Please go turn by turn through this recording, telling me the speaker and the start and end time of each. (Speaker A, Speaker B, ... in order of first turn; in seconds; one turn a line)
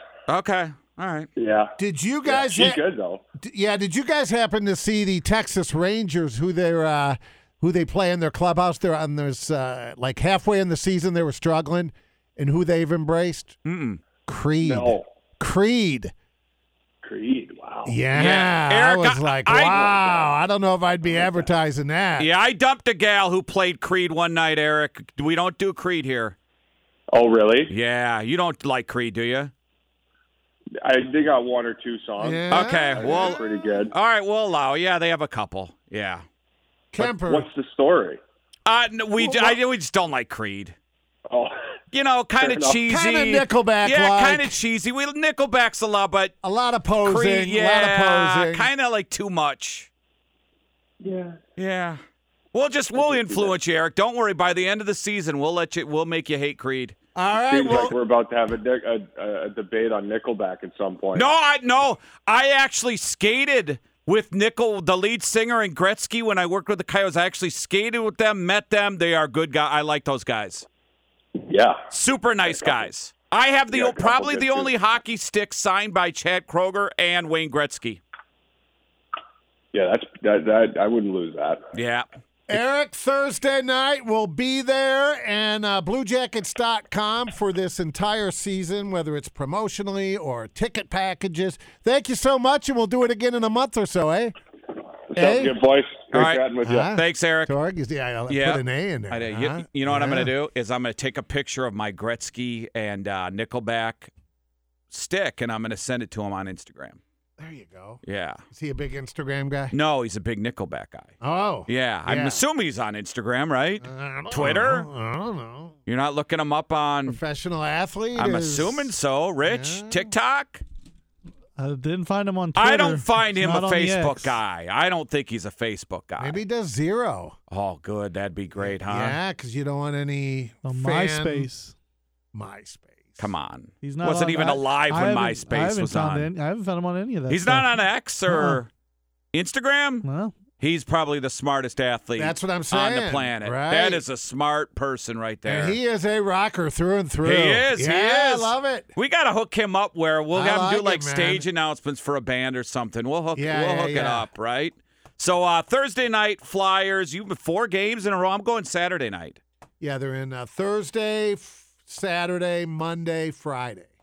Speaker A: 0.3-1.3
Speaker B: 1.4-1.8
Speaker C: 1.8-2.8
Speaker B: 2.3-3.2
Speaker C: 3.4-13.6
Speaker A: 13.7-14.0
Speaker C: 14.3-16.1
Speaker B: 14.6-15.1
Speaker B: 17.0-18.0
Speaker C: 17.9-22.3
Speaker A: 18.1-19.8
Speaker B: 19.6-20.3
Speaker B: 21.0-21.5
Speaker A: 22.2-26.4
Speaker B: 27.1-27.7
Speaker A: 27.7-29.5
Speaker B: 30.8-33.9
Speaker C: 32.2-33.4
Speaker A: 32.5-33.4
Speaker A: 33.9-36.2
Speaker C: 36.9-37.5
Speaker B: 37.0-38.2
Speaker A: 38.7-40.8
Speaker C: 39.2-39.6
Speaker A: 41.9-46.3
Speaker B: 42.4-42.8
Speaker C: 42.9-44.6
Speaker C: 46.4-48.7
Speaker A: 47.0-49.9
Speaker B: 51.0-51.4
Speaker A: 51.6-52.0
Speaker A: 52.5-57.0
Speaker B: 53.0-53.6
Speaker C: 57.1-58.0
Speaker B: 57.5-61.3
Speaker A: 61.1-70.7
Speaker B: 71.4-71.8
Speaker A: 71.9-78.0
Speaker B: 72.5-72.9
Speaker B: 73.7-74.7
Speaker B: 79.7-81.6
Speaker A: 81.7-82.1
Speaker C: 82.5-94.3
Speaker B: 95.1-96.9
Speaker C: 95.2-95.5
Speaker A: 96.1-96.4
Speaker C: 96.6-100.3
Speaker A: 96.9-97.5
Speaker A: 98.3-104.1
Speaker A: 104.9-107.0
Speaker C: 107.4-109.7
Speaker A: 108.0-108.4
Speaker A: 109.7-111.1
Speaker C: 111.2-112.4
Speaker A: 111.7-114.9
Speaker C: 113.8-115.8
Speaker A: 115.9-117.2
Speaker C: 117.1-118.9
Speaker A: 118.2-120.6
Speaker C: 119.4-120.1
Speaker D: 121.6-124.4
Speaker A: 122.5-126.4
Speaker C: 126.2-127.4
Speaker A: 127.5-129.2
Speaker C: 128.6-131.5
Speaker D: 130.6-131.8
Speaker C: 132.3-133.3
Speaker A: 133.2-136.3
Speaker D: 133.8-138.6
Speaker A: 137.3-138.7
Speaker A: 139.3-140.1
Speaker D: 140.0-140.3
Speaker A: 140.6-145.8
Speaker C: 142.2-144.0
Speaker C: 145.4-148.9
Speaker A: 147.2-159.4
Speaker C: 150.3-151.4
Speaker C: 153.4-154.3
Speaker C: 159.8-163.9